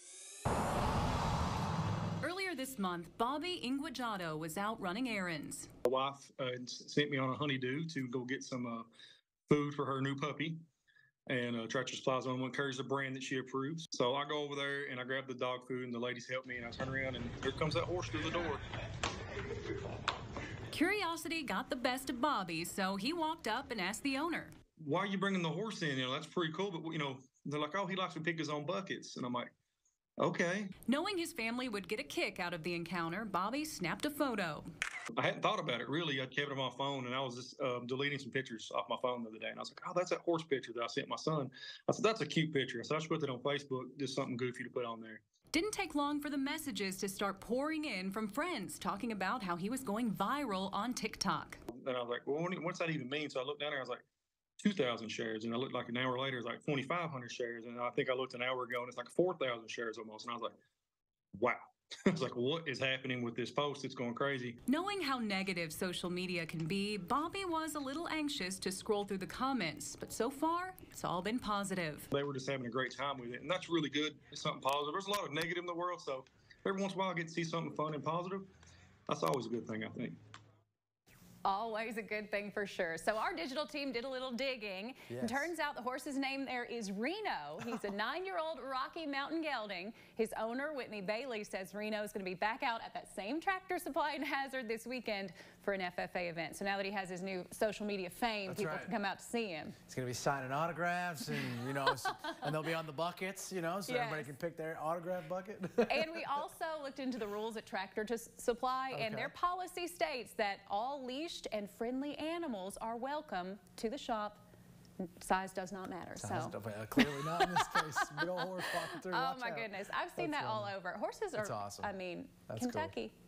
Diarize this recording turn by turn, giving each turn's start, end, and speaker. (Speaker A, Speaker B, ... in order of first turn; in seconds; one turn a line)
Speaker A: 2.2-5.7
Speaker B: 5.8-8.9
Speaker B: 9.5-10.7
Speaker B: 11.3-18.6
Speaker A: 20.7-24.5
Speaker B: 24.8-29.5
Speaker B: 30.2-30.8
Speaker A: 30.9-34.7
Speaker B: 35.2-45.2
Speaker A: 45.5-51.6
Speaker B: 51.7-54.0
Speaker B: 54.6-60.5
Speaker B: 61.3-64.6
Speaker A: 64.7-72.1
Speaker B: 72.1-78.5
Speaker B: 79.1-80.2
Speaker A: 81.5-99.8
Speaker C: 85.1-85.5
Speaker C: 98.5-98.9
Speaker C: 99.9-106.4
Speaker A: 103.9-104.3
Speaker A: 105.9-114.4
Speaker C: 108.9-109.3
Speaker A: 115.0-123.1
Speaker C: 116.2-120.7
Speaker C: 121.4-121.9
Speaker C: 122.5-122.9